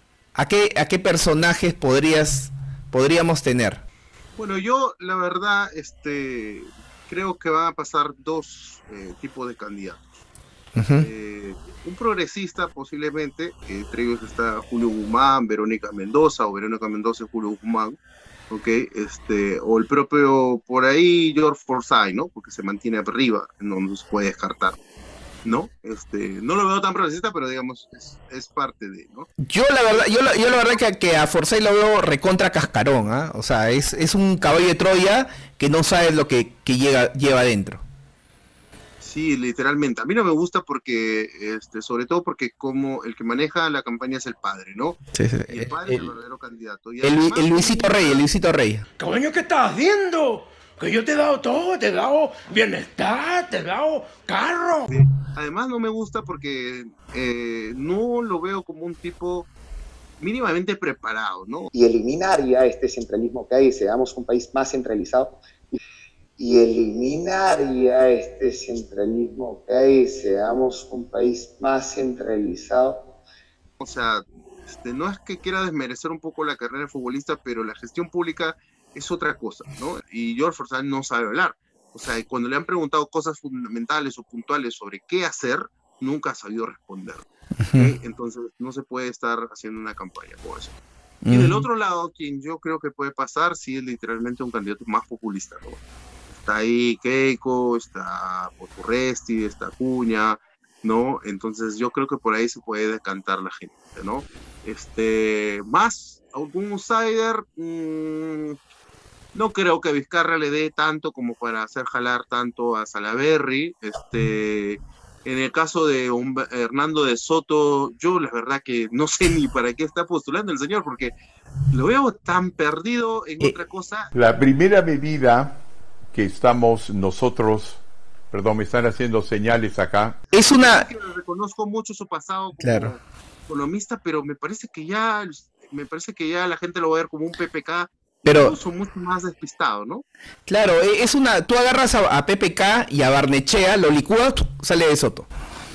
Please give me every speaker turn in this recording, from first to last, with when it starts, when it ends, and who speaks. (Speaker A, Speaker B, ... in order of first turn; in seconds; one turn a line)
Speaker A: 0.3-3.8
Speaker B: 4.3-10.0
Speaker A: 10.8-11.1
Speaker B: 11.0-18.0
Speaker B: 18.5-24.8
Speaker B: 25.4-29.3
Speaker A: 29.4-37.8
Speaker B: 30.4-30.8
Speaker B: 39.0-45.0
Speaker A: 45.1-46.1
Speaker B: 45.5-48.2
Speaker A: 47.0-48.8
Speaker C: 49.0-54.9
Speaker B: 54.9-59.5
Speaker B: 60.2-61.7
Speaker D: 61.7-65.8
Speaker D: 66.4-73.0
Speaker B: 73.8-90.7
Speaker A: 87.6-87.9
Speaker A: 91.2-91.7
Speaker B: 91.3-95.8
Speaker B: 96.4-108.6
Speaker B: 109.3-121.1
Speaker B: 121.7-124.1
Speaker E: 124.1-125.6
Speaker E: 126.1-130.2
Speaker A: 130.3-130.9
Speaker B: 130.6-140.0
Speaker A: 132.6-132.9
Speaker A: 138.2-138.6
Speaker A: 140.5-145.3